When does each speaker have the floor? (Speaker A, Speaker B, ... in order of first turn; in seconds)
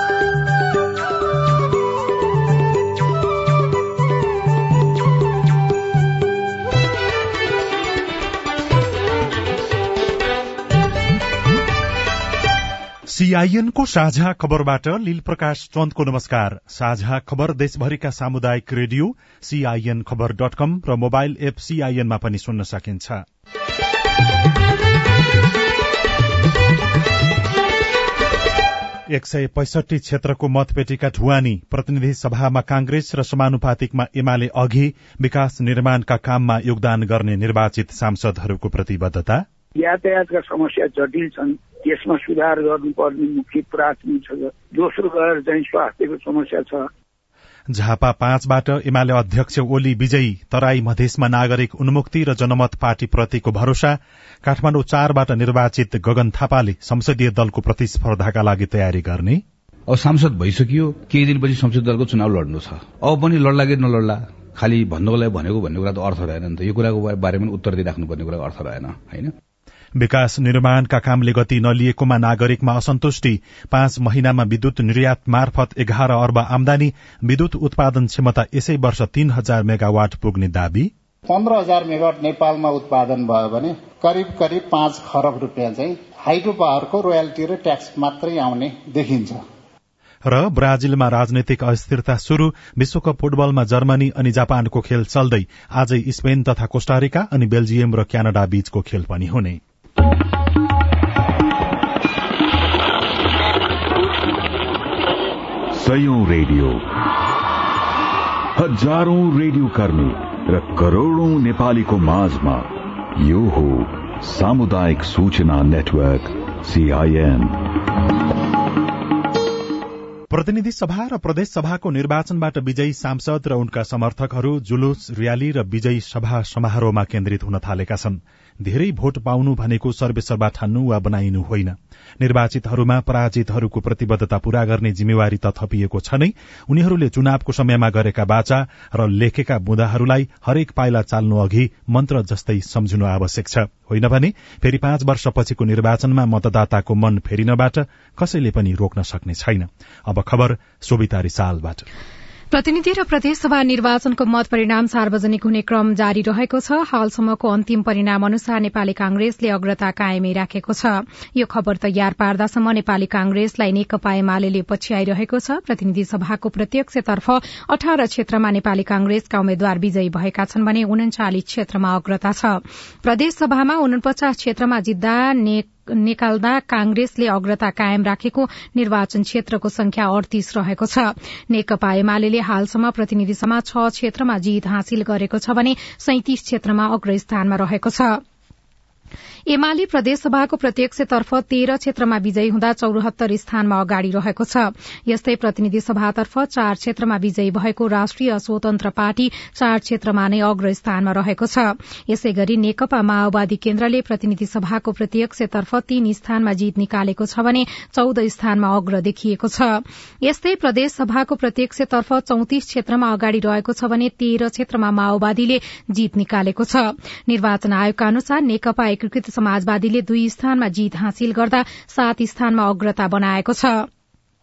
Speaker A: 13.1-23.2, 29.1-39.4, 47.7-59.4, 70.0-80.9, 90.2-99.6, 120.3-151.8
Speaker B: 39.8-46.9
Speaker C: 59.9-69.3
Speaker D: 81.3-89.4
Speaker E: 105.7-106.8, 108.5-117.6
Speaker F: 152.5-188.2, 189.5-223.9